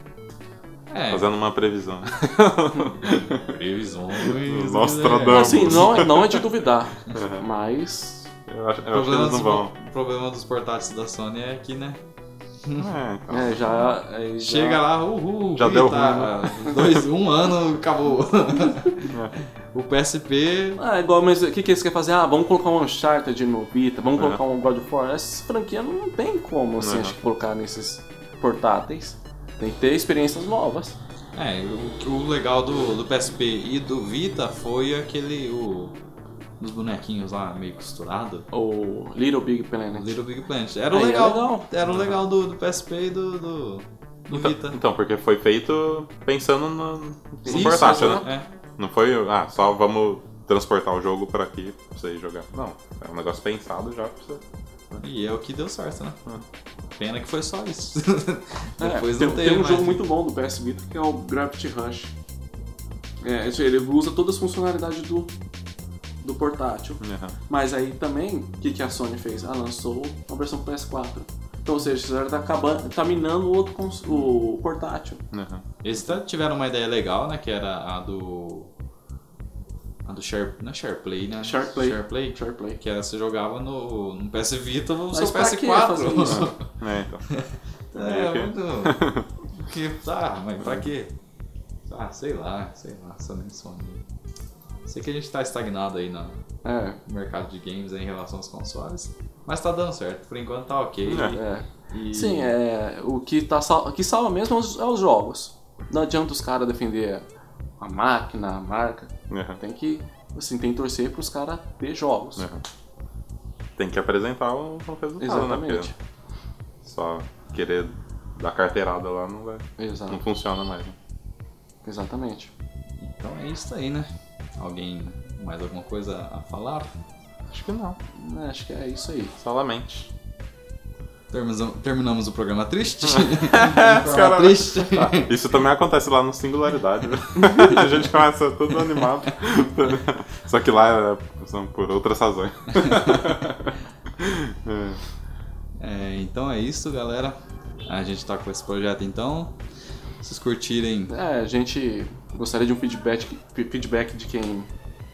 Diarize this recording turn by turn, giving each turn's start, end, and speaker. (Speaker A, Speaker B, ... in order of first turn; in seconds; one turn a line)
Speaker A: 0.9-1.3
Speaker B: 1.1-3.5
Speaker C: 2.7-3.0
Speaker A: 3.1-6.2
Speaker B: 4.2-6.4
Speaker C: 5.3-8.3
Speaker B: 7.1-7.4
Speaker B: 8.5-9.7
Speaker A: 8.9-12.0
Speaker B: 12.8-13.6
Speaker C: 13.3-14.8
Speaker A: 14.4-19.1
Speaker B: 15.6-17.1
Speaker B: 19.1-19.4
Speaker A: 19.7-20.8
Speaker C: 20.8-31.0
Speaker B: 26.8-27.1
Speaker A: 31.4-36.0
Speaker A: 36.6-38.5
Speaker C: 38.5-40.1
Speaker A: 39.9-44.8
Speaker C: 40.9-41.7
Speaker B: 44.3-55.0
Speaker C: 47.5-48.3
Speaker A: 47.5-48.5
Speaker A: 55.0-56.2
Speaker A: 57.0-60.0
Speaker C: 58.8-62.1
Speaker C: 63.2-65.3
Speaker C: 66.2-75.2
Speaker B: 67.0-67.4
Speaker B: 75.3-75.7
Speaker A: 75.8-78.7
Speaker A: 80.0-86.7
Speaker C: 81.4-82.8
Speaker C: 85.1-86.5
Speaker B: 86.2-87.2
Speaker A: 87.3-89.0
Speaker B: 88.0-89.3
Speaker A: 89.6-91.1
Speaker B: 90.6-90.9
Speaker A: 91.9-94.0
Speaker A: 94.9-96.4
Speaker C: 96.7-97.0
Speaker A: 97.1-102.5
Speaker B: 101.1-101.4
Speaker C: 101.2-107.2
Speaker C: 107.8-112.5
Speaker B: 109.3-109.6
Speaker B: 113.8-115.9
Speaker C: 115.2-116.0
Speaker B: 116.8-121.0
Speaker C: 119.8-120.2
Speaker C: 121.8-122.5
Speaker A: 123.0-127.0
Speaker B: 127.5-128.0
Speaker C: 128.2-129.3
Speaker B: 129.4-130.1
Speaker A: 131.3-135.4
Speaker B: 133.1-145.0
Speaker A: 142.8-143.3
Speaker A: 145.8-149.5
Speaker A: 150.2-151.1
Speaker C: 151.1-154.7